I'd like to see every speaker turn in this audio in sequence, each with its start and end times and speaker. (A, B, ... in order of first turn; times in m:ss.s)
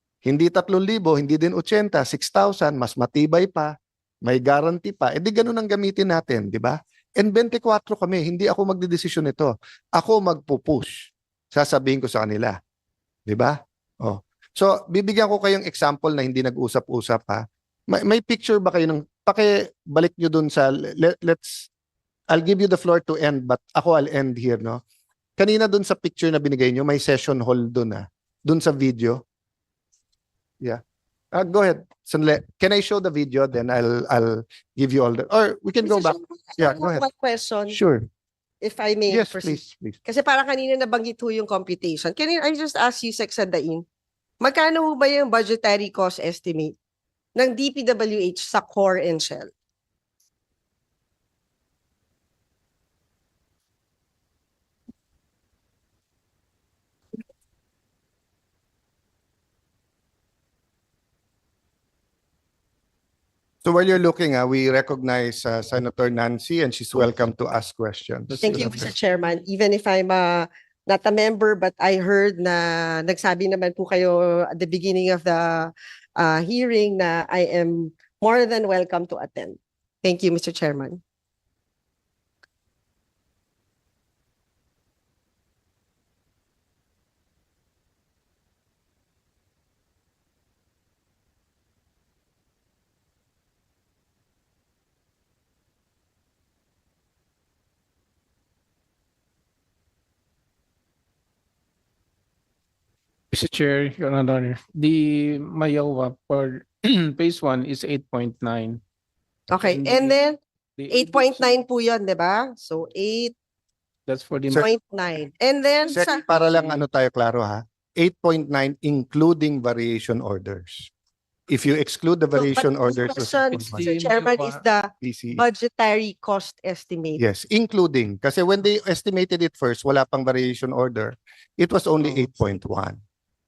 0:00.2-0:12.6 A
0:13.3-0:21.7 A
0:22.3-0:24.8 A
0:25.4-0:29.2 A
0:31.3-0:37.0 A
0:35.8-0:37.8 B
0:37.7-0:38.1 A
0:38.6-0:43.8 B
0:39.1-0:40.0 A
0:44.4-0:46.8 B
0:47.4-0:49.5 B
1:03.6-1:08.9 A
1:08.3-1:08.9 C
1:08.4-1:21.0 B
1:43.3-1:48.8 C
1:49.5-1:50.4 B
1:49.6-1:50.2 C
1:50.8-1:51.6 C
1:50.9-1:53.3 B
1:54.1-1:54.7 C
1:54.5-1:56.2 B
1:55.9-1:56.8 C
1:55.9-2:00.9 A
2:01.5-2:03.8 A
2:02.3-2:07.2 B
2:03.5-2:04.6 C
2:05.0-2:05.4 A
2:07.2-2:13.0 A